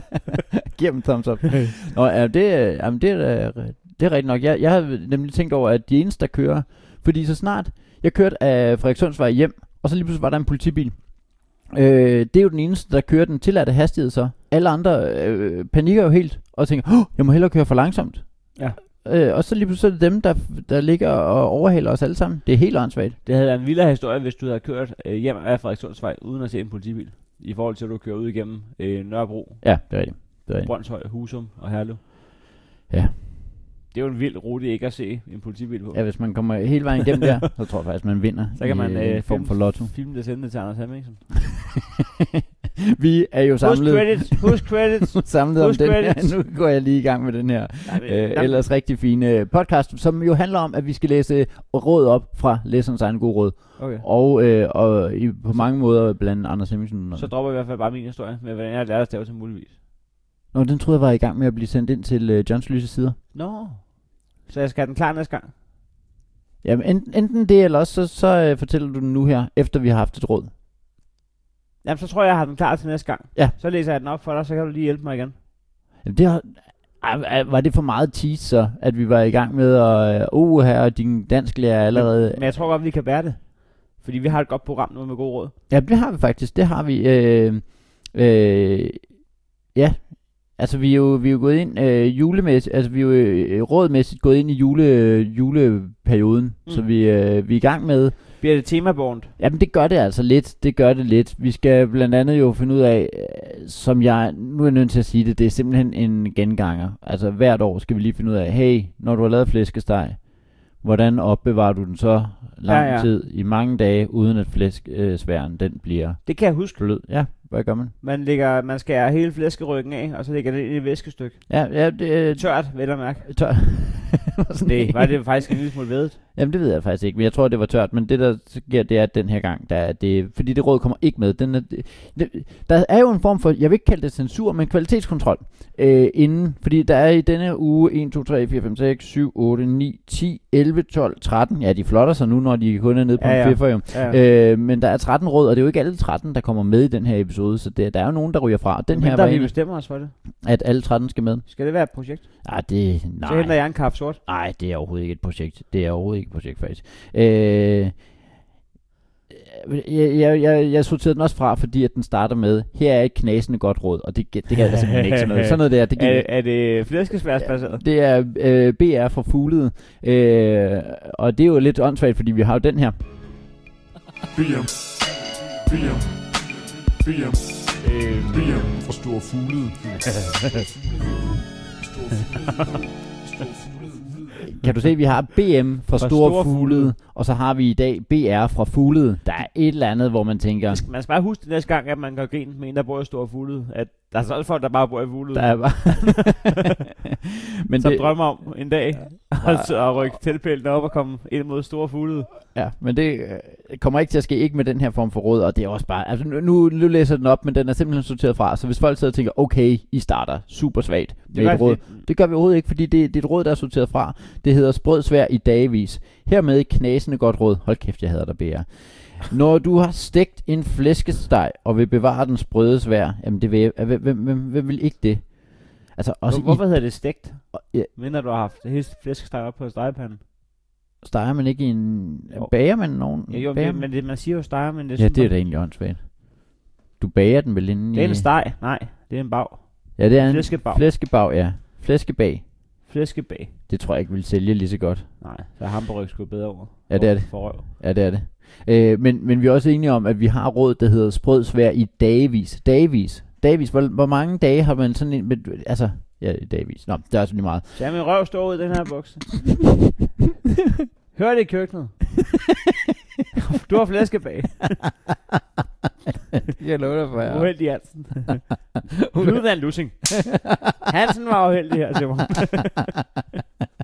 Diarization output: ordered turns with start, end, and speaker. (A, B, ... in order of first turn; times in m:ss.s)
0:00.7-0:23.2 A
0:23.2-0:32.0 B
0:29.6-0:30.7 A
0:32.9-0:33.2 A
0:33.9-0:36.7 B
0:35.9-0:39.9 A
0:38.5-0:41.2 B
0:42.8-0:57.3 A
0:43.6-0:46.4 B
0:47.8-0:48.7 B
0:53.8-0:54.0 B
0:57.1-0:59.7 B
1:00.5-1:03.2 A
1:03.3-1:05.5 B
1:06.6-1:10.5 A
1:11.8-1:15.3 B
1:16.0-1:22.7 A
1:21.9-1:25.5 B
1:25.7-1:38.4 A
1:38.4-1:39.3 B
1:39.4-1:57.9 A
1:52.6-1:53.1 B
1:56.2-1:56.8 B
1:58.0-2:03.4 B
2:01.5-2:05.4 A
2:04.6-2:06.2 B
2:06.3-2:29.5 A
2:23.2-2:24.2 B
2:28.9-2:30.1 B
2:30.4-2:31.5 A
2:31.4-2:32.5 B
2:32.4-2:38.1 A
2:33.2-2:34.2 B
2:39.3-2:46.5 A
2:44.7-2:47.8 B
2:47.4-2:52.9 A
2:54.3-2:56.4 C
2:57.0-3:04.4 C
3:04.4-3:10.8 A
3:06.0-3:06.9 B
3:10.7-3:16.5 B
3:15.3-3:16.6 A
3:17.6-3:18.5 A
3:17.8-3:22.4 B
3:19.4-3:20.1 A
3:22.5-3:47.9 A
3:31.3-3:32.0 B
3:46.3-3:50.2 B
3:51.0-3:53.9 A
3:52.3-3:55.3 B
3:55.0-3:58.3 A
3:57.9-4:00.8 B
4:00.0-4:02.4 A
4:02.8-4:03.5 B
4:03.7-4:05.1 A
4:05.2-4:07.6 B
4:06.9-4:17.8 A
4:17.7-4:19.6 B
4:21.1-4:22.2 B
4:23.5-4:24.9 B
4:26.5-4:28.1 A
4:27.2-4:32.9 B